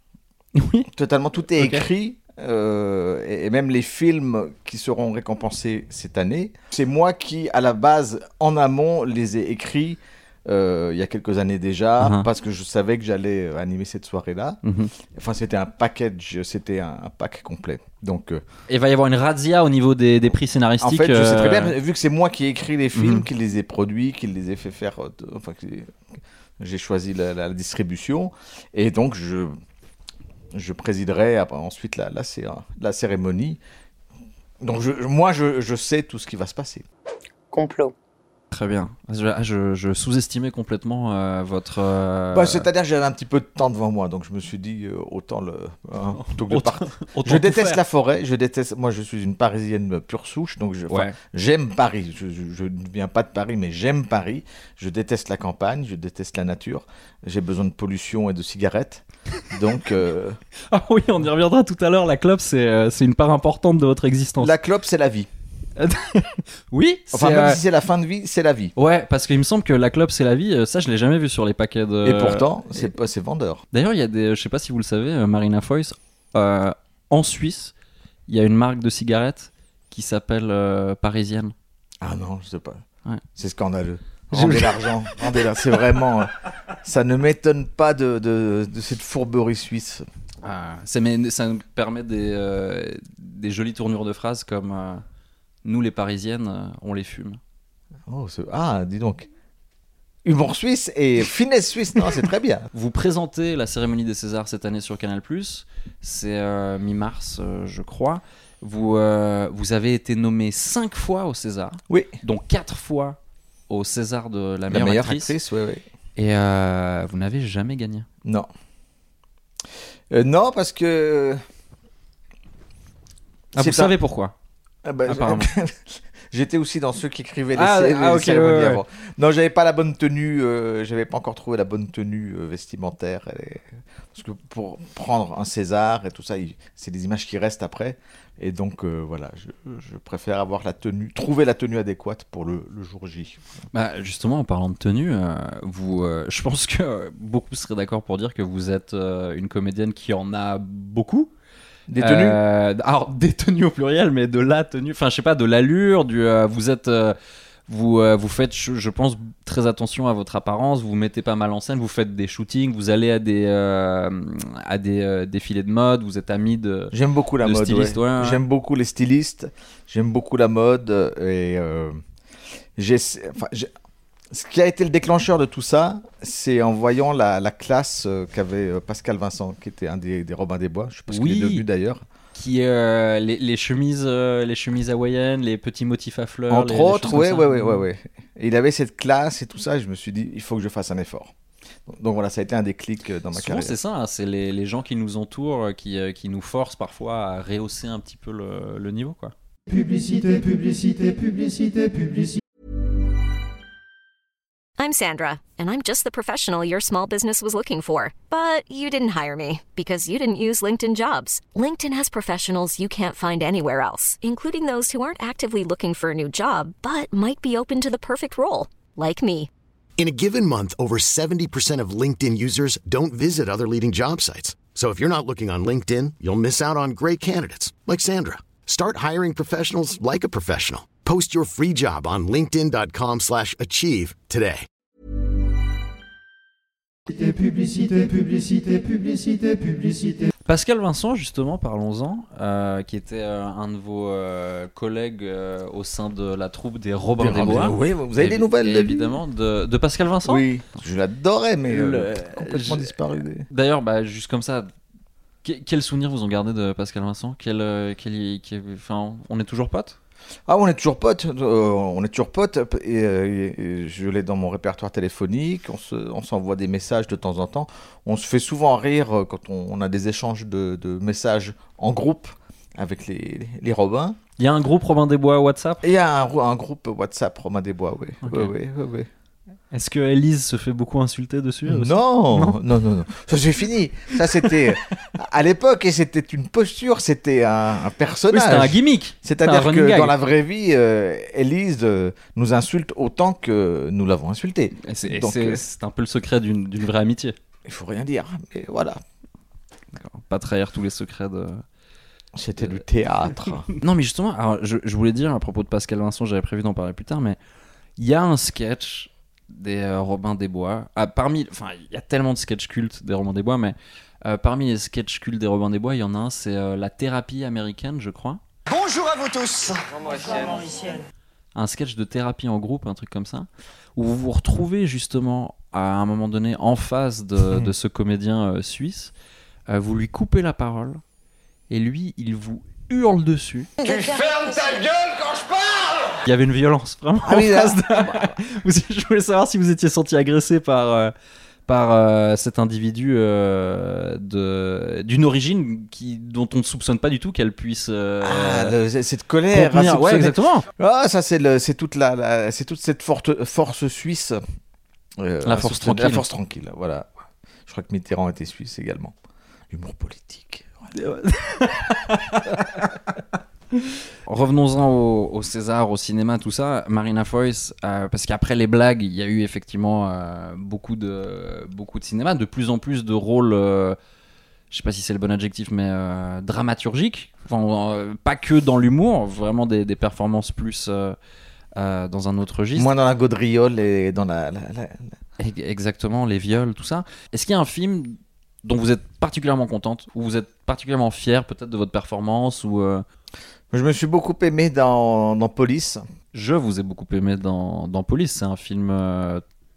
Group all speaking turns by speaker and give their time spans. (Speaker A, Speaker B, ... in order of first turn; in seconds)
Speaker A: 0.6-0.9, 1.6-1.9, 12.0-12.3, 14.6-14.9, 18.7-21.8, 22.9-23.2, 38.5-42.7, 46.1-47.8, 50.9-51.2, 60.7-64.5, 65.8-67.6, 68.8-72.9, 73.7-77.7, 78.3-81.5, 84.3-85.8, 90.4-95.0, 95.6-97.4, 102.7-113.2, 113.7-115.3, 116.2-118.1, 123.5-124.3, 125.0-125.5, 127.5-128.8, 143.7-151.3, 152.0-157.2, 157.7-168.4, 181.1-181.6, 182.3-187.8, 193.3-199.3, 240.4-250.5, 251.7-252.9, 253.5-254.7, 255.4-260.0, 274.4-275.8, 278.2-278.5, 279.7-282.6, 284.1-284.5, 288.3-290.1, 294.8-297.4, 299.9-301.6, 303.7-307.4, 308.0-318.4, 321.5-329.1, 329.7-331.0, 331.7-333.7, 336.2-341.1, 341.7-348.8, 349.5-350.7, 355.4-356.2, 360.9-362.9, 364.3-374.0, 374.7-381.2, 381.8-382.9, 385.4-393.0, 396.3-399.4
Speaker B: 0.9-14.6, 15.1-18.4, 20.8-25.9, 26.6-29.6, 30.5-33.6, 34.6-36.8, 42.3-60.4, 64.4-65.3, 67.1-68.7, 72.0-73.6, 82.0-82.8, 83.3-90.0, 98.1-99.3, 100.2-102.7, 111.9-112.2, 114.7-115.8, 120.1-121.4, 123.6-123.9, 124.8-143.4, 151.9-152.4, 166.9-172.0, 172.8-173.7, 174.3-182.0, 186.5-191.3, 191.9-193.8, 247.2-249.2, 250.2-253.4, 260.5-274.2, 275.8-279.1, 281.6-295.6, 297.6-299.0, 302.3-303.7, 327.4-327.7, 337.2-338.4, 348.2-354.4, 355.2-357.1, 357.7-359.1, 359.7-360.7, 382.7-385.2, 393.7-396.0
Speaker C: 37.5-37.9, 318.7-321.0, 333.8-336.1
Speaker D: 199.7-202.4, 237.1-240.3
Speaker E: 204.8-219.5
Speaker F: 220.0-234.7